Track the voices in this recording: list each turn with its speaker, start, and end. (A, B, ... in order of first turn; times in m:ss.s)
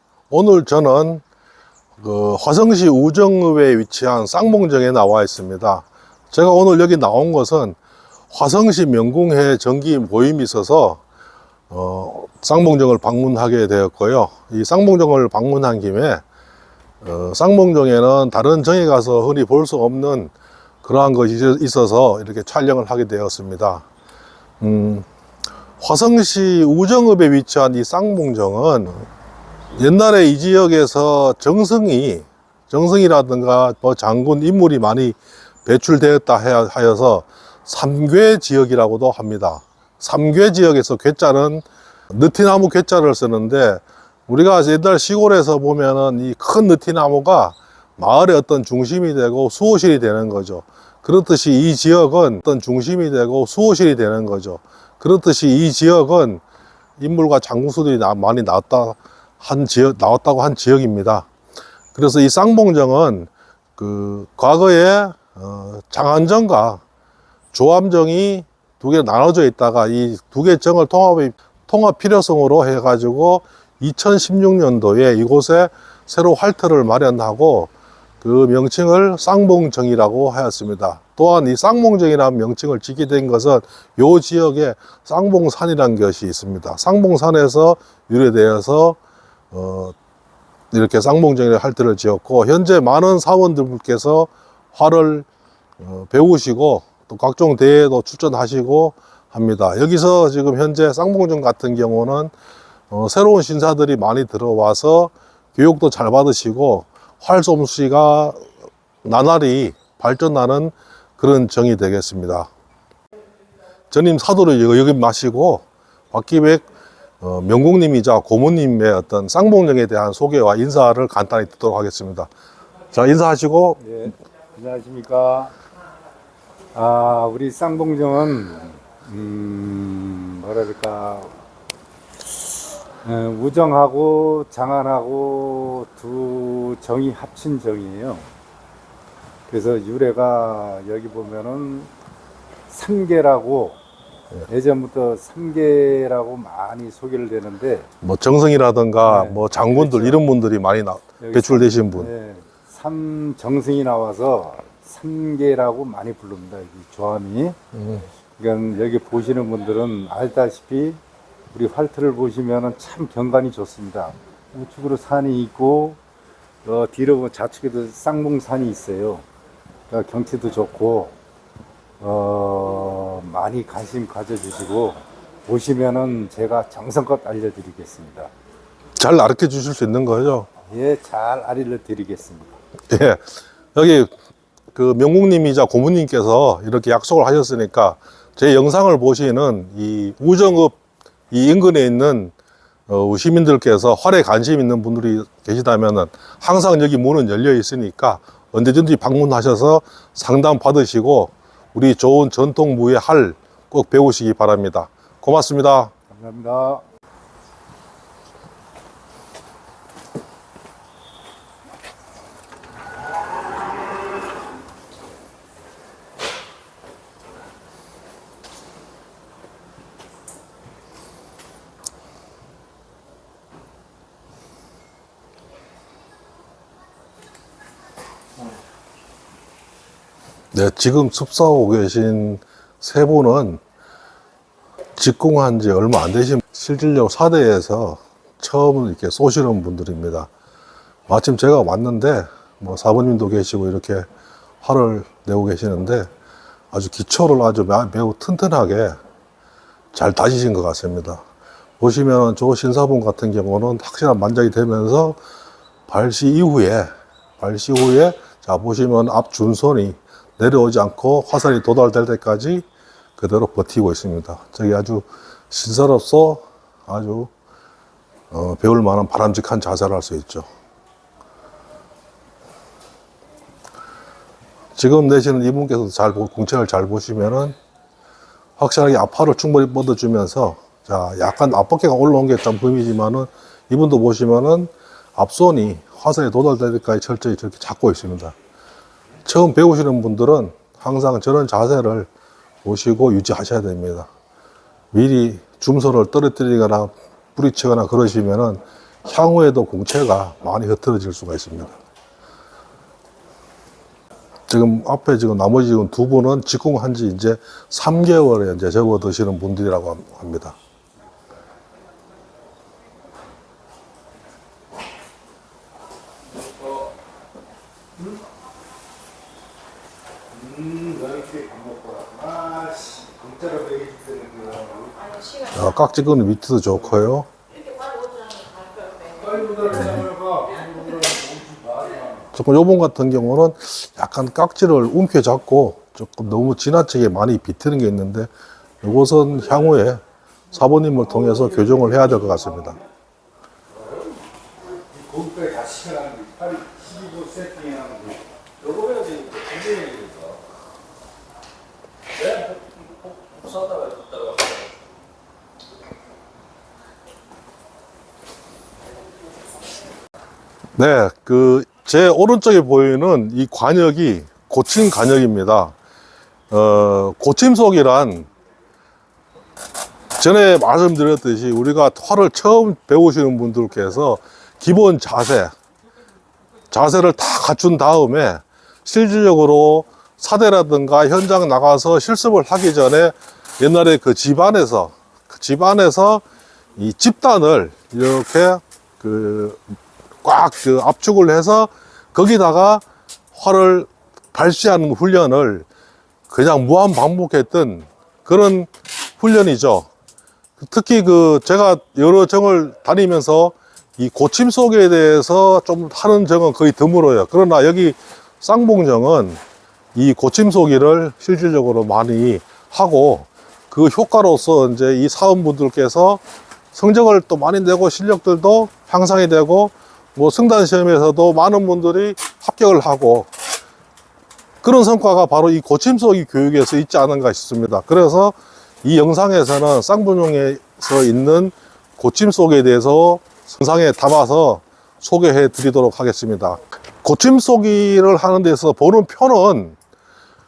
0:00.3-0:01.2 A
0:02.0-0:07.8 A
0:08.3-0:11.0 A
0:11.7-0:16.2 A
0:17.0-0:23.8 A
0:24.6-0:25.1 A
0:25.8-0:29.1 A
0:29.8-0:56.4 A
0:57.0-1:01.3 A
1:01.9-1:06.8 A
1:07.5-1:29.0 A
1:29.5-1:30.0 A
1:30.7-1:35.3 A
1:35.8-1:42.3 A
1:42.9-1:48.5 A
1:49.0-1:52.5 A
1:53.9-1:56.6 A
1:57.2-2:02.3 A
2:02.9-2:03.8 A
2:03.8-2:05.5 B
2:06.7-2:11.4 B
2:12.2-2:18.3 B
2:19.5-2:21.9 B
2:22.7-2:23.8 B
2:24.5-2:27.9 B
2:28.0-2:32.1 A
2:29.0-2:30.2 B
2:31.2-2:37.6 B
2:37.8-2:38.0 A
2:38.4-2:41.0 B
2:41.5-2:46.0 B
2:46.6-2:49.3 B
2:49.9-2:51.2 B
2:52.0-2:58.3 B
2:59.0-3:00.5 A
3:00.6-3:02.6 B
3:02.9-3:03.2 A
3:03.8-3:04.1 A
3:04.7-3:10.8 A
3:11.3-3:12.3 A
3:12.9-3:25.9 A
3:26.1-3:26.8 B
3:50.5-3:53.6 A
3:55.0-4:00.3 A
4:01.1-4:04.1 A
4:04.6-4:06.1 A
4:06.7-4:09.0 A
4:09.9-4:11.2 A
4:11.8-4:15.2 A
4:15.9-4:22.6 A
4:23.2-4:27.3 A
4:28.3-4:30.5 A
4:34.8-4:37.6 A
4:38.6-4:48.4 A
4:49.2-4:52.1 A
4:52.6-4:54.1 A
4:54.9-5:01.8 A
5:04.5-5:10.6 A
5:20.3-5:25.5 B
5:25.5-5:27.3 A
5:28.9-5:32.3 B
5:32.3-5:38.3 A
5:38.8-5:40.0 A
5:40.5-5:42.8 A
5:44.6-5:50.2 B
6:00.8-6:05.8 A
6:06.5-6:08.3 A
6:10.2-6:15.5 A
6:16.7-6:26.2 A
6:26.8-6:35.7 A
6:36.3-6:39.9 A
6:40.6-6:49.4 A
6:50.0-6:56.2 A
6:56.7-7:03.3 A
7:04.6-7:19.8 A